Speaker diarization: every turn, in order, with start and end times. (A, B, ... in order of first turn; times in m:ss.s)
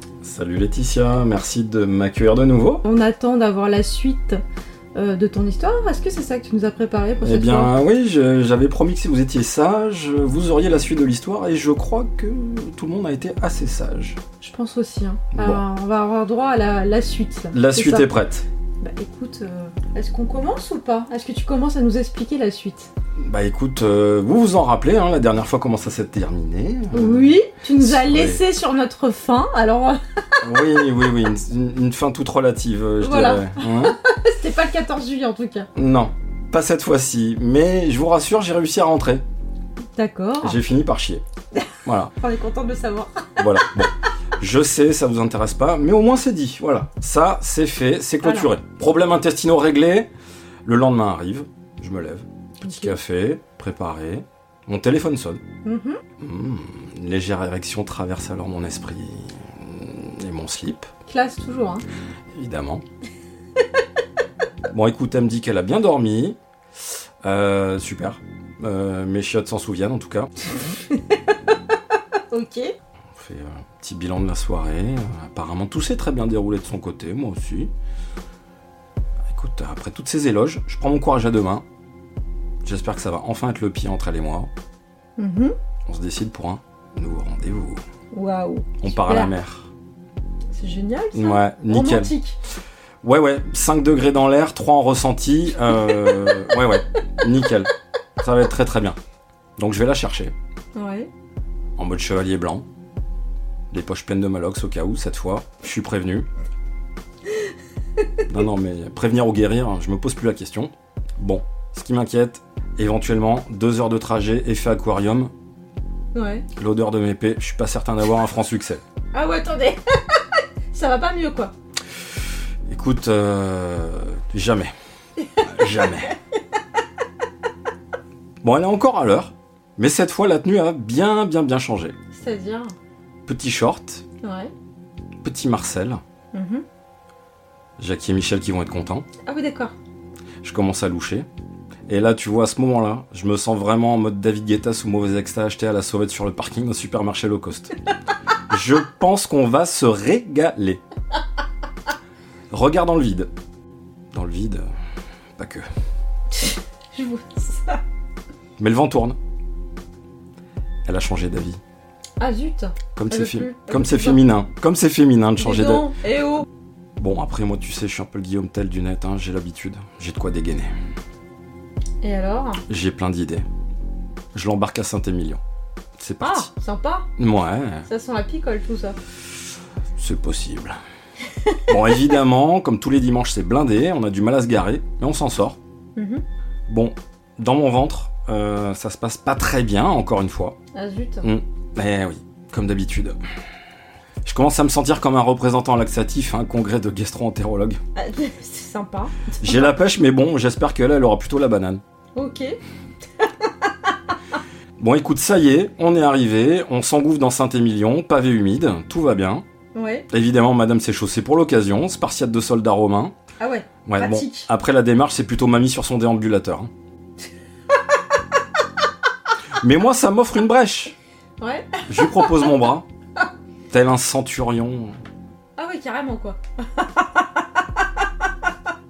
0:00.2-0:02.8 A
0:02.8-0:04.4 B
0:04.9-0:07.7 B
0:07.2-0:14.2 A
0:14.4-0:18.1 B
0:15.3-0:15.6 A
0:17.5-0:18.4 A
0:18.8-0:22.9 B
0:23.2-0:28.4 A
0:26.9-0:30.9 B
0:30.4-0:34.0 A
0:33.0-0:35.7 B
0:35.7-0:39.2 A
0:40.0-0:40.6 B
0:40.4-0:41.2 A
0:41.5-0:43.9 B
0:41.8-0:42.1 A
0:43.4-0:50.1 A
0:48.2-0:48.5 B
0:50.6-0:55.4 A
0:52.6-0:53.0 B
0:55.6-0:56.0 B
0:56.2-1:00.9 A
1:01.1-1:01.8 B
1:02.3-1:02.8 A
1:04.7-1:06.4 A
1:07.2-1:10.3 A
1:10.6-1:11.5 B
1:12.3-1:12.7 B
1:13.2-1:17.7 A
1:19.3-1:21.6 A
1:22.6-1:24.5 A
1:25.2-1:25.5 B
1:25.9-1:27.8 A
1:28.1-1:29.3 B
1:28.8-1:29.7 A
1:30.5-1:32.4 B
1:31.1-1:32.1 A
1:33.0-1:39.0 A
1:35.9-1:36.4 B
1:39.6-1:40.3 A
1:40.7-1:41.1 B
1:41.8-1:42.6 A
1:43.7-1:46.3 A
1:48.2-1:55.3 A
1:56.1-1:56.4 B
1:56.5-1:58.8 A
1:59.1-2:01.5 B
2:02.7-2:04.7 A
2:05.4-2:06.1 A
2:05.4-2:06.0 B
2:08.4-2:12.0 A
2:12.1-2:12.7 B
2:13.3-2:14.0 A
2:14.2-2:14.5 B
2:15.2-2:16.0 A
2:16.3-2:16.6 B
2:17.8-2:19.1 A
2:19.2-2:19.7 B
2:20.4-2:21.3 A
2:21.9-2:27.7 A
2:28.5-2:30.8 A
2:32.5-2:33.3 A
2:34.1-2:34.6 A
2:35.4-2:35.7 A
2:36.3-2:37.8 B
2:38.6-2:39.2 A
2:40.8-2:41.6 A
2:42.2-2:44.2 B
2:42.8-2:45.9 A
2:45.4-2:46.4 B
2:47.0-2:50.7 A
2:52.0-2:52.6 B
2:52.7-2:53.4 A
2:54.3-2:55.4 A
2:56.0-2:56.5 A
2:56.2-2:57.1 B
2:57.2-2:57.9 A
2:57.8-2:59.0 B
3:00.0-3:00.8 A
3:01.6-3:05.6 A
3:06.0-3:06.2 B
3:06.7-3:10.5 A
3:10.7-3:11.3 B
3:11.2-3:13.2 A
3:14.2-3:17.8 A
3:18.0-3:19.8 B
3:19.4-3:21.8 A
3:22.1-3:22.6 B
3:23.2-3:23.9 B
3:24.8-3:29.4 A
3:29.7-3:30.0 B
3:30.1-3:33.1 A
3:33.4-3:34.5 B
3:33.8-3:36.7 A
3:39.6-3:40.9 A
3:41.4-3:42.7 B
3:41.9-3:42.8 A
3:43.7-3:44.9 A
3:45.6-3:47.4 B